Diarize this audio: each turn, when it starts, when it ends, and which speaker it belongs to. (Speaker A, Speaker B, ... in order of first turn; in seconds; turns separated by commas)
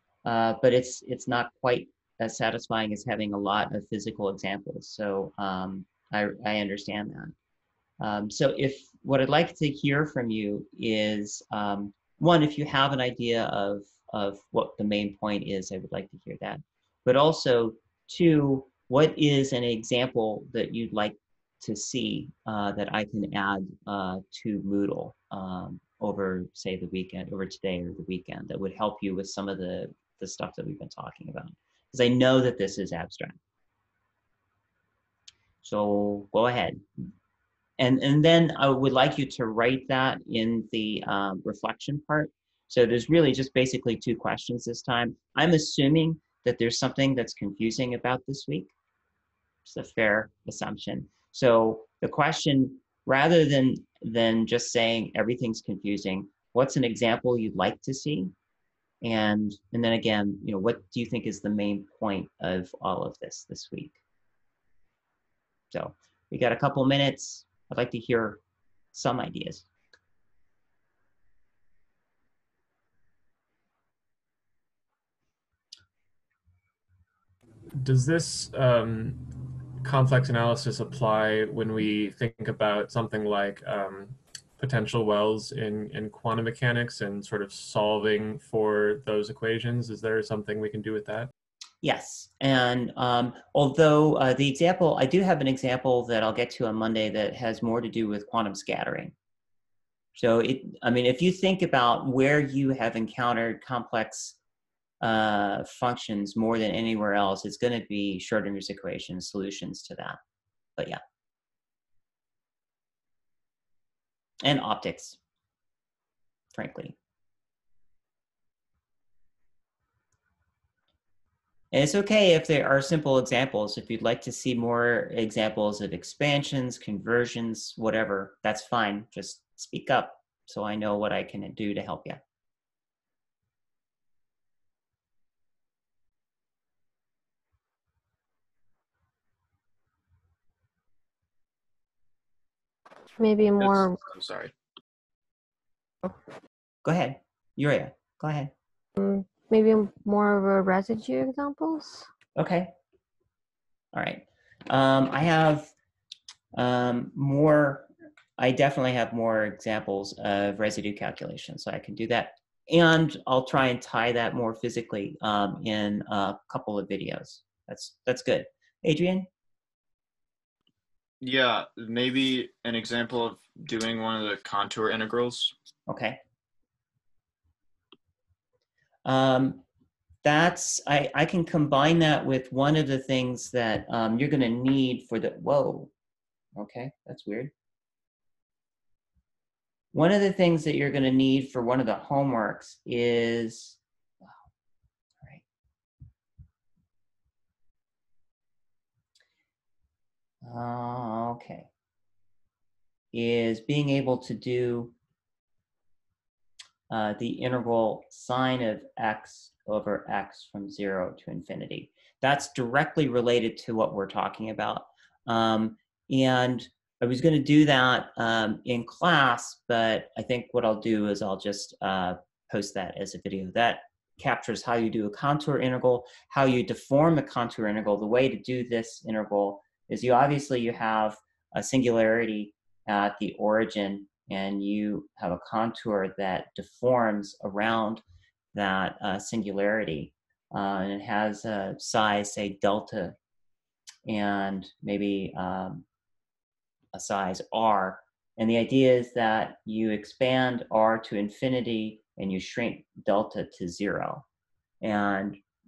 Speaker A: 0.2-7.3, Speaker A: 8.0-33.4, Speaker A: 35.6-36.8, Speaker A: 37.8-48.7, Speaker A: 49.6-58.3, Speaker A: 59.0-64.0, Speaker A: 65.7-68.4, Speaker A: 68.9-69.7, Speaker B: 77.8-91.3, Speaker A: 91.8-99.2, Speaker A: 100.2-104.4, Speaker A: 105.0-110.2, Speaker A: 114.4-115.2, Speaker A: 116.5-117.0, Speaker A: 121.7-132.2, Speaker C: 143.2-144.0, Speaker D: 143.6-144.5, Speaker A: 146.8-148.5, Speaker C: 149.0-152.1, Speaker A: 152.4-152.7, Speaker A: 153.9-155.7, Speaker A: 156.6-169.3, Speaker D: 171.2-175.5, Speaker A: 175.9-176.2, Speaker A: 179.1-179.6, Speaker A: 180.2-185.9, Speaker A: 186.6-187.5, Speaker A: 189.9-193.8, Speaker A: 200.4-201.7, Speaker A: 203.1-204.9, Speaker A: 206.9-238.0, Speaker A: 238.5-243.2, Speaker A: 244.1-245.8, Speaker A: 246.9-254.2, Speaker A: 254.8-255.4